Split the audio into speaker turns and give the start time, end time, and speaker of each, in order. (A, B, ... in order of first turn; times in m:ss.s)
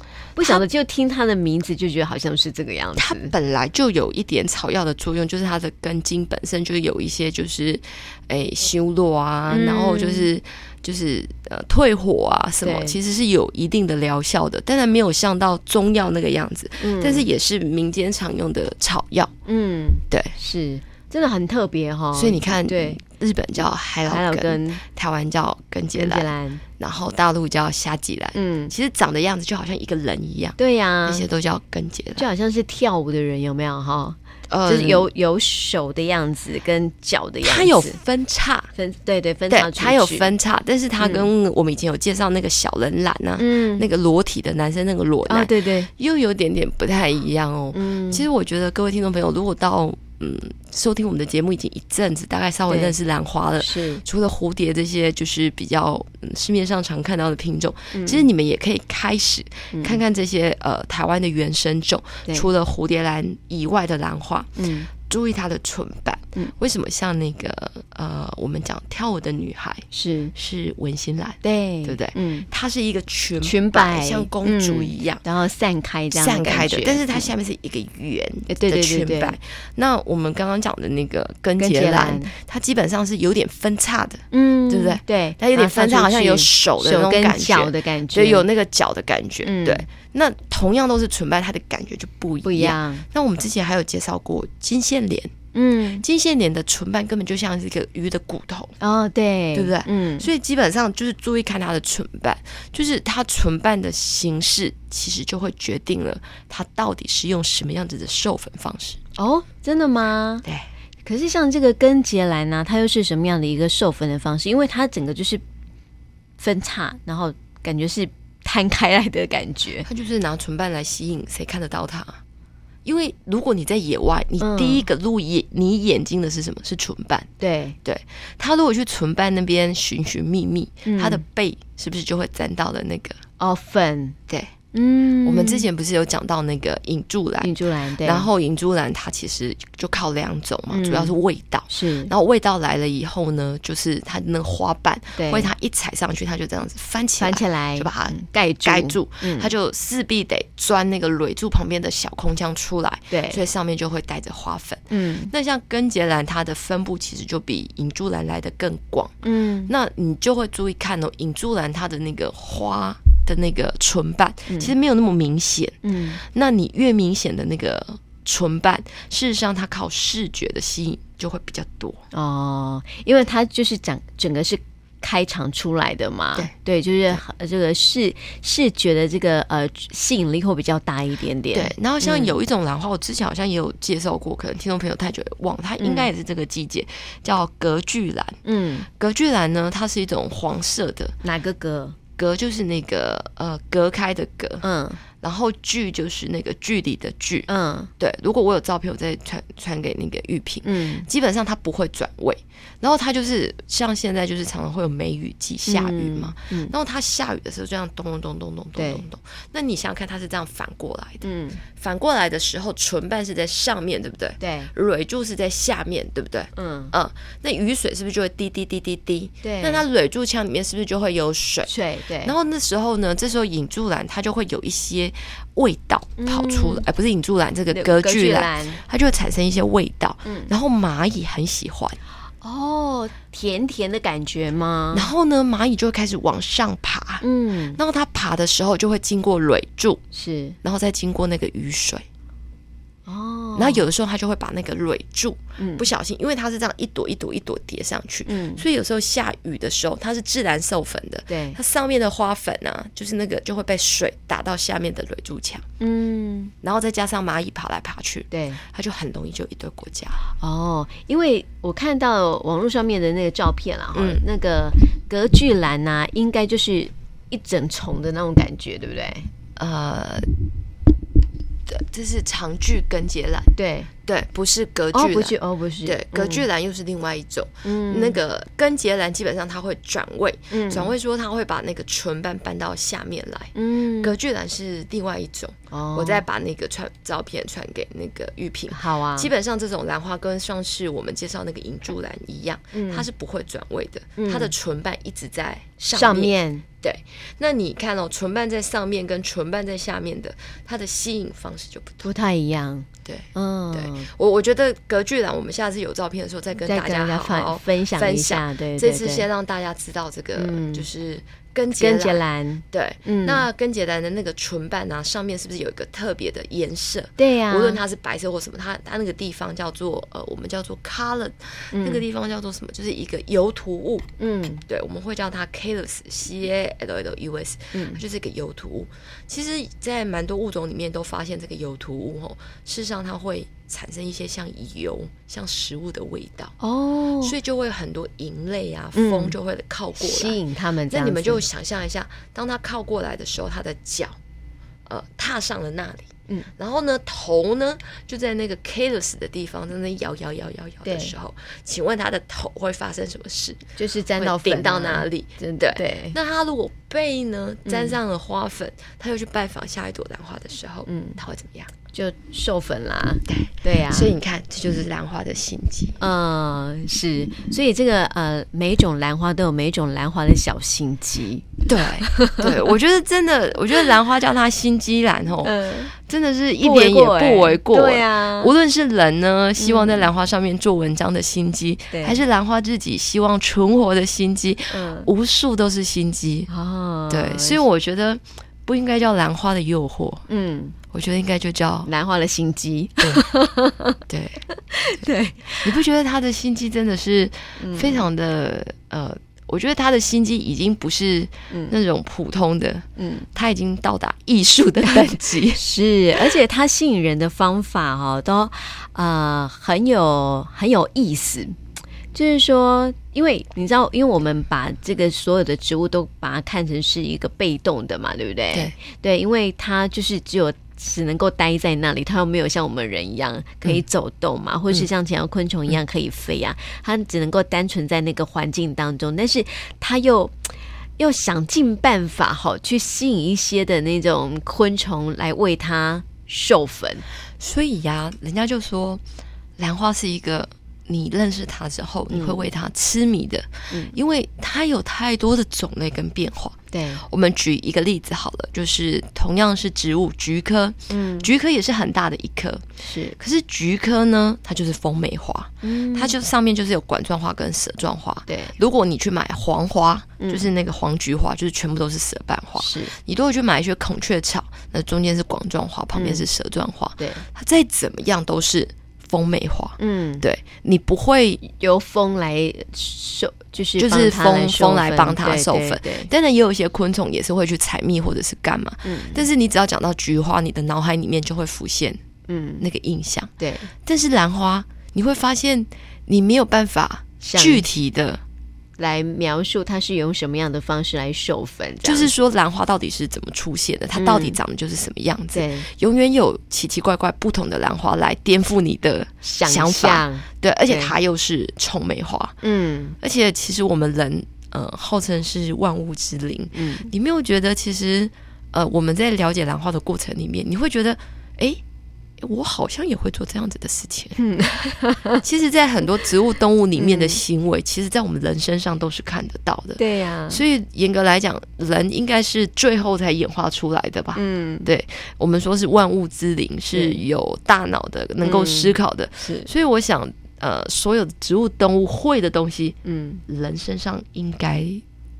0:00.4-0:03.3 A
0:00.4-0:00.6 B
0:03.0-0:19.3 B
0:09.5-0:10.3 A
0:12.6-0:13.0 A
0:16.8-0:17.3 A
0:19.4-0:23.0 A
0:22.1-0:32.2 B
0:24.1-0:24.8 A
0:25.9-0:26.6 A
0:28.3-0:28.7 A
0:30.6-0:31.2 A
0:32.2-0:38.0 A
0:34.5-0:35.1 B
0:37.4-0:38.7 B
0:38.7-0:40.3 A
0:39.5-1:15.2 B
0:41.0-0:41.3 A
0:43.4-0:43.9 A
0:45.3-0:45.9 A
0:47.7-0:48.2 A
0:52.7-0:52.9 A
0:53.6-0:54.0 A
0:57.9-0:58.2 A
0:59.7-1:00.0 A
1:04.6-1:04.9 A
1:09.9-1:10.3 A
1:11.4-1:12.4 A
1:13.4-1:17.3 A
1:16.1-1:35.3 B
1:18.5-1:19.4 A
1:21.6-1:22.3 A
1:24.3-1:28.4 A
1:29.4-1:29.8 A
1:32.4-1:33.0 A
1:35.5-1:36.0 A
1:36.0-1:38.8 B
1:38.8-1:40.3 A
1:39.5-1:49.0 B
1:49.2-1:50.4 A
1:51.0-1:55.4 A
1:56.4-1:59.9 A
1:59.8-2:02.2 B
2:02.8-2:07.3 B
2:04.4-2:04.9 A
2:07.4-2:07.8 A
2:07.8-2:13.2 B
2:10.8-2:11.2 A
2:13.4-2:14.2 A
2:14.7-2:15.6 A
2:15.2-2:17.5 B
2:17.4-2:18.3 A
2:18.0-2:52.0 B
2:20.7-2:21.1 A
2:21.7-2:22.1 A
2:25.2-2:25.5 A
2:27.2-2:29.5 A
2:33.1-2:33.4 A
2:34.9-2:35.3 A
2:39.2-2:39.7 A
2:45.8-2:46.2 A
2:52.1-3:02.3 A
3:01.5-3:11.1 B
3:05.8-3:06.1 A
3:08.4-3:08.9 A
3:11.2-3:12.0 A
3:12.2-3:14.6 B
3:14.6-3:15.0 A
3:15.2-3:41.7 B
3:17.5-3:17.9 A
3:20.6-3:21.0 A
3:25.6-3:26.7 A
3:28.8-3:29.0 A
3:31.2-3:31.6 A
3:34.4-3:34.7 A
3:36.6-3:36.9 A
3:39.4-3:39.8 A
3:41.7-3:42.3 A
3:42.2-3:52.0 B
3:46.2-3:46.8 A
3:47.7-3:48.8 A
3:50.2-3:50.5 A
3:52.4-3:55.1 A
3:54.9-4:00.0 B
3:57.2-3:57.8 A
4:00.1-4:00.6 A
4:00.6-4:02.0 B
4:03.0-4:03.8 A
4:03.6-4:15.6 B
4:05.6-4:05.9 A
4:08.3-4:08.6 A
4:11.3-4:11.6 A
4:15.8-4:16.5 A
4:16.6-4:20.2 B
4:18.3-4:18.6 A
4:20.3-4:29.3 A
4:23.9-4:24.2 B
4:29.6-4:30.3 B
4:31.7-4:33.5 B
4:33.6-4:33.9 A
4:34.0-5:02.1 B
4:34.9-4:36.4 A
4:37.6-4:38.2 A
4:40.5-4:40.9 A
4:43.5-4:44.2 A
4:45.7-4:46.2 A
4:48.7-4:49.3 A
4:52.7-4:53.1 A
4:54.2-4:54.5 A
4:55.8-4:56.6 A
5:02.0-5:04.1 A
5:03.0-5:24.1 B
5:06.6-5:09.3 A
5:10.4-5:10.8 A
5:11.7-5:13.4 A
5:17.2-5:17.8 A
5:21.7-5:22.0 A
5:24.2-5:24.6 A
5:24.6-5:36.5 B
5:27.7-5:28.0 A
5:36.6-5:37.3 A
5:37.2-5:44.2 B
5:38.9-5:39.4 A
5:40.0-5:41.4 A
5:44.8-6:01.7 B
5:50.8-5:51.1 A
5:53.8-5:56.2 A
5:57.6-5:58.0 A
6:00.9-6:01.2 A
6:01.9-6:04.2 A
6:03.3-6:06.0 B
6:06.0-6:12.7 A
6:11.6-6:26.5 B
6:15.4-6:15.9 A
6:16.6-6:18.5 A
6:19.6-6:20.1 A
6:21.9-6:22.2 A
6:24.7-6:25.1 A
6:26.5-6:27.6 A
6:27.1-6:30.2 B
6:30.3-6:30.8 A
6:30.9-6:31.9 B
6:31.8-6:35.7 A
6:33.0-6:33.3 B
6:34.1-6:34.4 B
6:35.6-6:45.6 B
6:37.6-6:38.0 A
6:41.5-6:41.8 A
6:43.0-6:43.2 A
6:44.8-6:51.6 A
6:52.1-7:17.0 A
7:17.4-7:19.0 B
7:19.6-7:32.6 B
7:22.1-7:22.4 A
7:23.7-7:24.0 A
7:26.7-7:27.0 A
7:30.9-7:31.3 A
7:32.8-7:33.2 A
7:33.2-7:51.4 B
7:35.6-7:36.1 A
7:38.3-7:38.6 A
7:40.2-7:40.5 A
7:42.6-7:42.9 A
7:45.9-7:46.2 A
7:47.0-7:47.2 A
7:49.8-7:50.2 A
7:51.4-7:56.1 A
7:53.8-8:02.0 B
7:58.8-7:59.3 A
8:02.3-8:02.6 A
8:02.6-8:08.2 B
8:03.4-8:03.7 A
8:07.2-8:07.6 A
8:08.8-8:12.1 A
8:11.8-8:22.4 B
8:13.9-8:14.4 A
8:15.3-8:15.7 A
8:19.2-8:20.9 A
8:22.4-8:23.0 A
8:23.0-8:31.6 B
8:26.5-8:26.9 A
8:32.2-8:34.2 B
8:34.2-8:35.2 A
8:35.2-8:54.8 B
8:36.8-8:37.2 A
8:39.8-8:40.4 A
8:44.2-8:44.7 A
8:46.7-8:47.0 A
8:48.2-8:49.5 A
8:52.8-8:53.2 A